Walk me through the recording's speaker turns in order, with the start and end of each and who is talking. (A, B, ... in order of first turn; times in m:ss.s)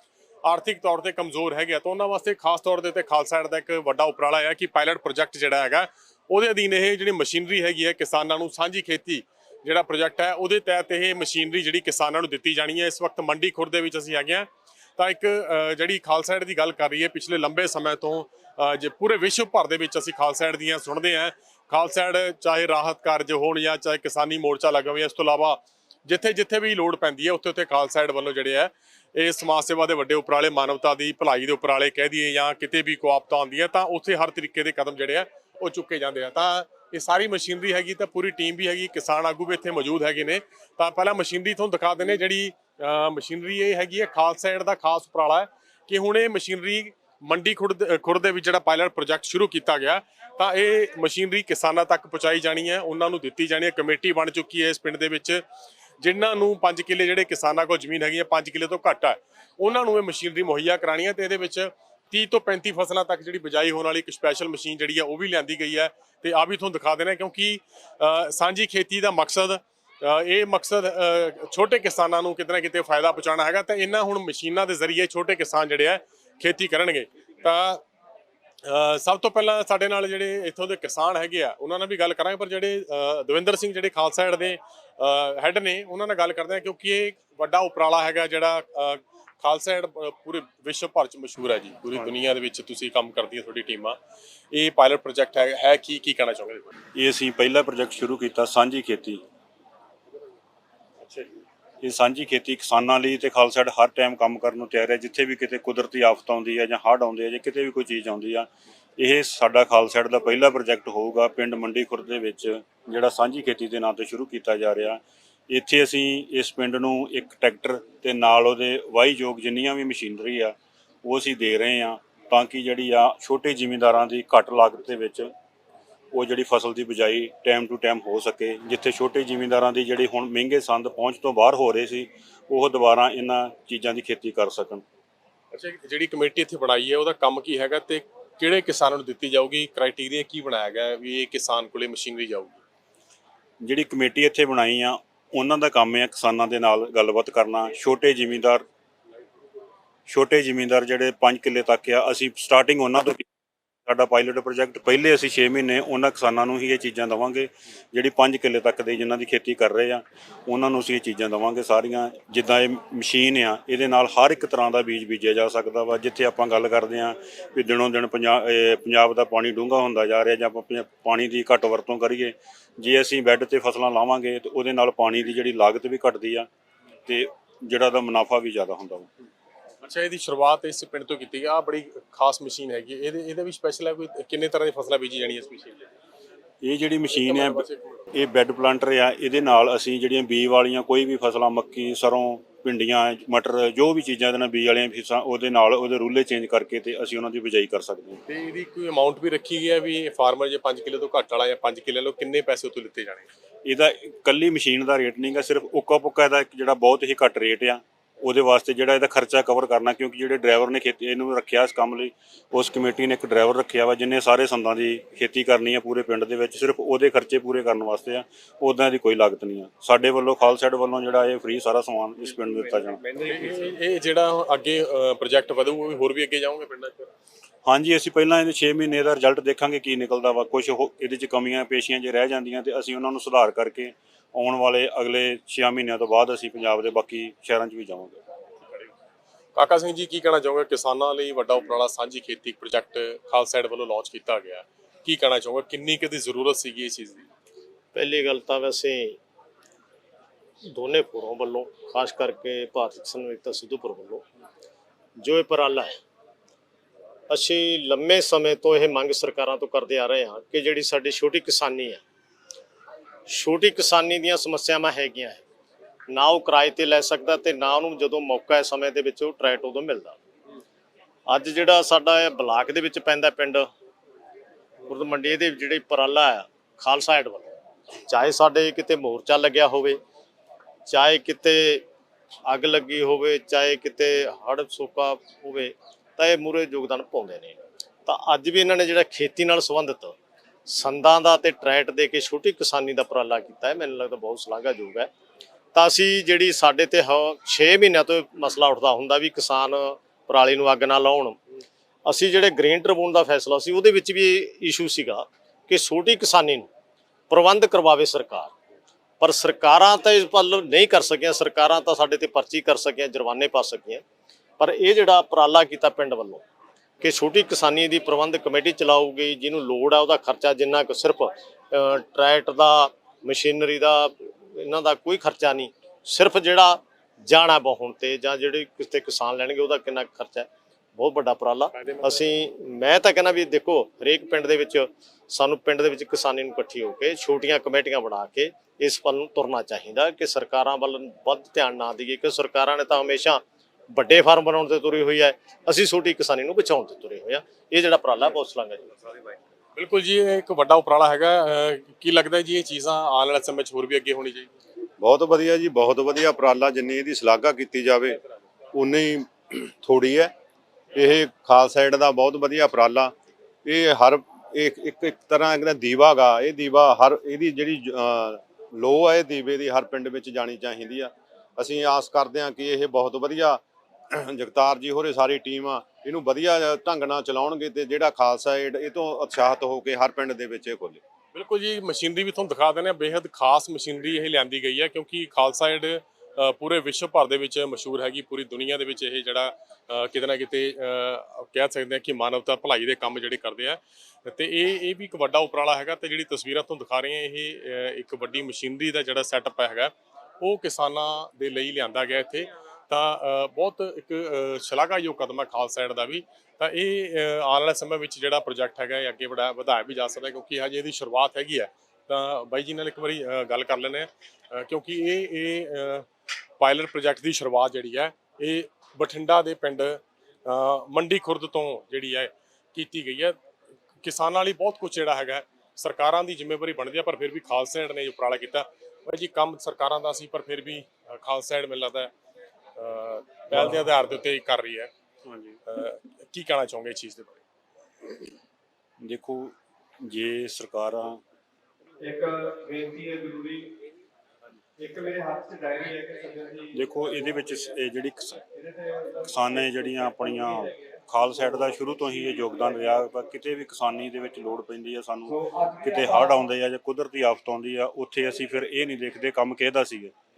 0:00.4-0:55.4 A
0:56.0-1:17.8 A
1:18.6-1:34.0 A
1:34.5-1:36.7 A
1:37.0-1:39.2 B
1:41.8-2:05.3 B
2:06.1-2:14.8 B
2:15.5-2:22.6 A
2:23.6-2:28.6 B
2:30.1-2:33.2 B
2:33.9-2:56.5 B
2:57.1-2:59.1 B
2:59.8-3:05.8 A
3:06.6-3:18.2 B
3:07.1-3:08.1 A
3:18.3-3:23.3 A
3:23.7-3:43.0 B
3:43.1-3:47.1 A
3:47.7-3:58.2 B
3:59.6-4:07.3 A
4:07.9-4:09.2 C
4:10.6-4:14.2 C
4:15.2-4:16.0 C
4:17.3-4:22.0 C
4:23.3-4:25.4 C
4:26.1-4:30.2 C
4:31.3-4:33.7 C
4:34.9-4:40.0 C
4:40.9-4:41.8 C
4:42.5-4:50.2 C
4:50.7-4:55.1 C
4:55.7-5:01.4 C
5:02.0-5:06.7 C
5:07.3-5:08.5 C
5:09.2-5:14.0 C
5:14.6-5:16.4 C
5:17.0-5:49.2 C
5:31.7-5:32.3 A
5:49.8-5:54.5 A
5:55.0-5:58.2 D
5:58.7-6:00.3 D
6:01.0-6:03.1 D
6:03.6-6:13.6 D
6:14.1-6:21.0 D
6:21.3-6:56.1 A
6:56.6-7:03.4 A
7:04.0-7:12.1 A
7:12.8-7:14.9 A
7:15.3-7:15.6 B
7:15.7-7:17.4 A
7:19.0-7:21.2 B
7:22.0-7:23.7 E
7:24.8-7:27.5 E
7:26.7-7:28.4 B
7:28.6-7:30.7 E
7:29.2-7:40.1 B
7:31.5-7:32.7 E
7:35.3-7:36.5 E